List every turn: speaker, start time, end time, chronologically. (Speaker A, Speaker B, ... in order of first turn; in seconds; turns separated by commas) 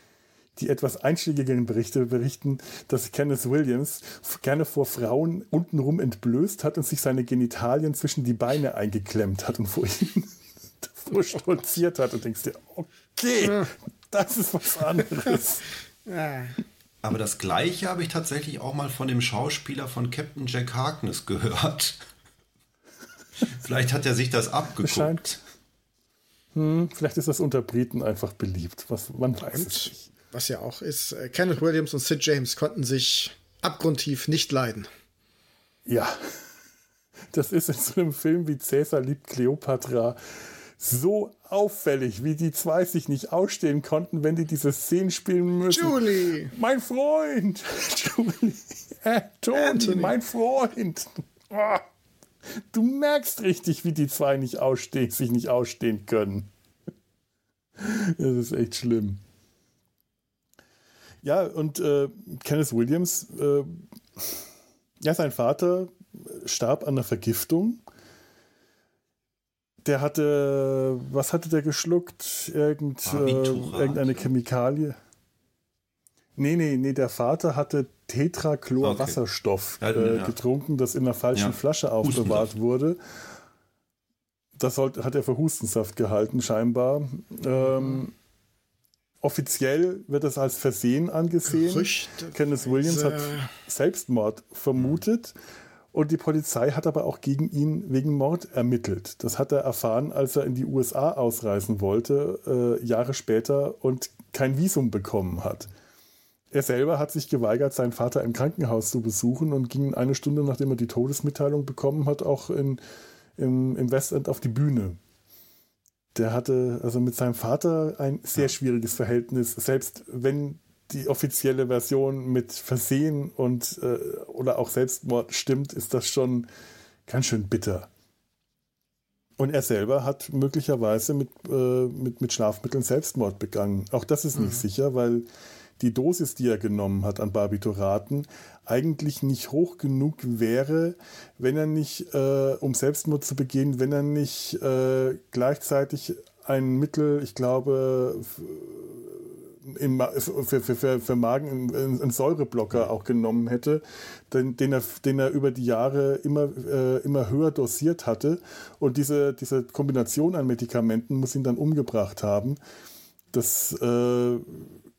Speaker A: 0.6-15.7, Speaker B: 16.1-16.6, Speaker C: 17.0-22.0, Speaker C: 23.4-25.2, Speaker A: 24.8-25.4, Speaker A: 26.5-30.1, Speaker B: 29.5-34.9, Speaker A: 35.9-36.4, Speaker A: 37.3-51.8, Speaker B: 45.7-46.5, Speaker B: 49.5-50.1, Speaker A: 52.5-56.5, Speaker A: 57.8-59.2, Speaker A: 61.2-64.4, Speaker A: 65.0-67.8, Speaker A: 69.8-75.0, Speaker C: 73.0-74.3, Speaker A: 76.4-83.0, Speaker C: 78.8-79.2, Speaker C: 79.8-80.3, Speaker C: 81.3-82.5, Speaker A: 84.6-88.1, Speaker A: 89.2-95.3, Speaker B: 91.5-93.5, Speaker A: 95.9-105.7, Speaker A: 106.5-112.8, Speaker A: 113.4-115.0, Speaker A: 116.1-126.5, Speaker A: 127.1-127.9, Speaker A: 129.4-135.2, Speaker B: 134.4-134.6, Speaker A: 135.8-162.6, Speaker A: 163.3-164.7